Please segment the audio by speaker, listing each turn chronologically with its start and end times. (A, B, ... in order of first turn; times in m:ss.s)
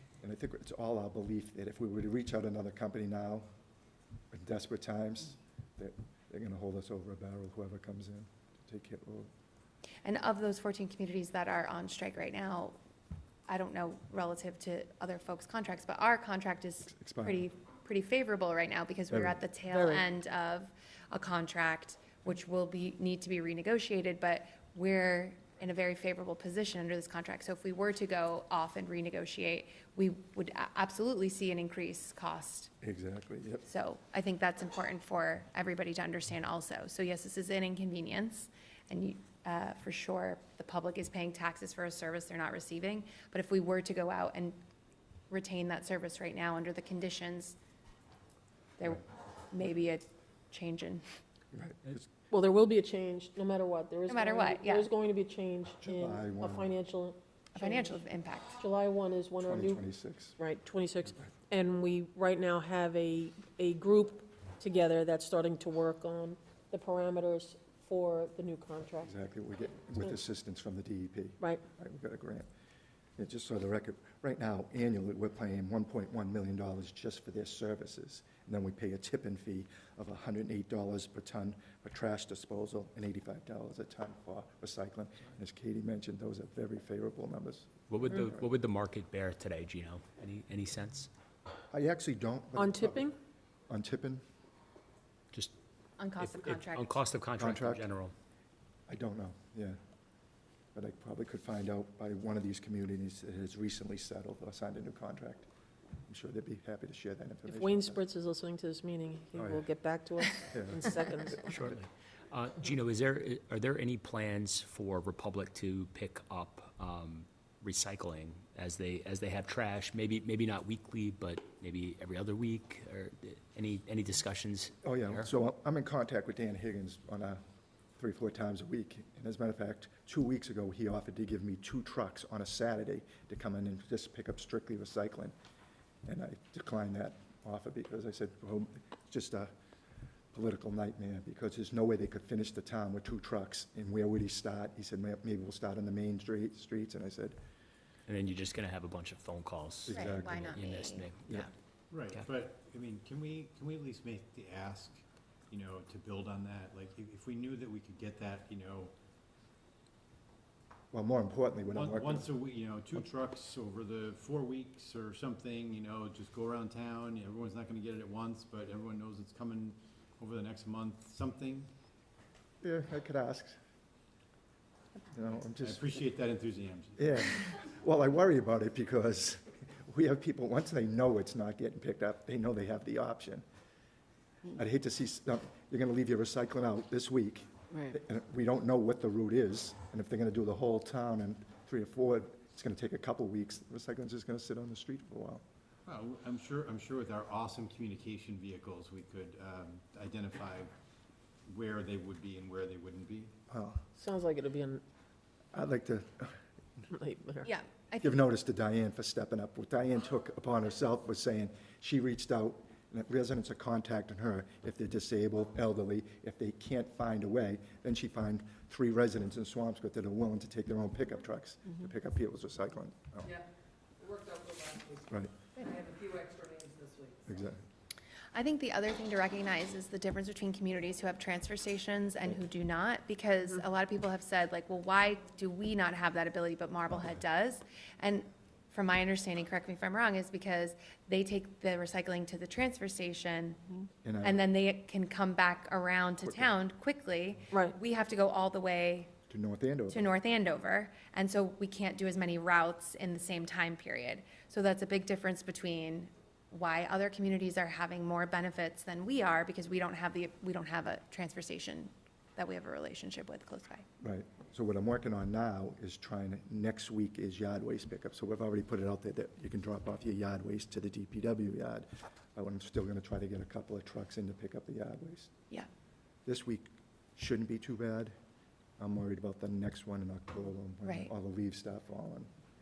0:00.2-0:03.5 A
0:04.3-0:09.3 A
0:10.0-0:12.8 B
0:13.5-0:32.7 B
0:16.9-0:17.4 A
0:19.1-0:19.4 A
0:19.7-0:20.1 C
0:32.8-0:33.6 A
0:33.7-0:44.6 B
0:45.3-0:47.6 B
0:48.8-0:51.0 B
0:51.5-0:52.1 A
0:52.3-0:58.0 C
0:54.1-0:54.9 B
0:55.8-0:56.8 A
0:57.6-0:58.6 B
0:58.6-0:59.8 C
0:59.4-1:00.4 A
1:00.4-1:09.1 C
1:09.0-1:12.5 A
1:13.2-1:28.5 A
1:27.9-1:31.1 D
1:31.7-1:33.1 A
1:32.6-1:33.2 C
1:33.7-1:34.2 A
1:36.0-1:37.0 B
1:36.2-1:38.1 D
1:37.4-1:37.8 A
1:38.9-1:39.8 A
1:40.8-1:45.5 A
1:46.1-1:48.0 A
1:47.5-1:51.5 C
1:49.4-1:49.7 A
1:50.5-1:50.9 A
1:51.4-2:05.3 D
2:04.8-2:07.4 A
2:08.0-2:15.3 A
2:16.0-2:19.5 A
2:20.3-2:27.4 A
2:28.1-2:31.4 D
2:29.9-2:31.5 B
2:29.9-2:30.5 A
2:31.9-2:38.9 E
2:40.9-2:42.3 A
2:41.7-2:51.7 E
2:52.6-2:53.6 A
2:55.1-2:56.0 A
2:55.6-2:57.3 E
2:57.0-3:03.4 A
3:04.5-3:15.4 A
3:15.9-3:20.7 E
3:21.5-3:23.3 E
3:23.5-3:23.8 A
3:24.0-3:24.8 C
3:25.5-3:26.4 A
3:26.9-3:27.5 C
3:27.4-3:28.2 B
3:28.0-3:43.3 A
3:44.1-3:44.9 F
3:45.7-3:47.0 F
3:47.3-3:47.6 A
3:48.3-4:03.6 B
4:04.0-4:04.4 A
4:04.2-4:09.2 B
4:06.2-4:06.5 A
4:09.3-4:10.1 A
4:09.9-4:23.9 B
4:24.0-4:35.3 A
4:36.3-4:38.1 A
4:38.8-4:42.3 A
4:40.8-4:41.1 B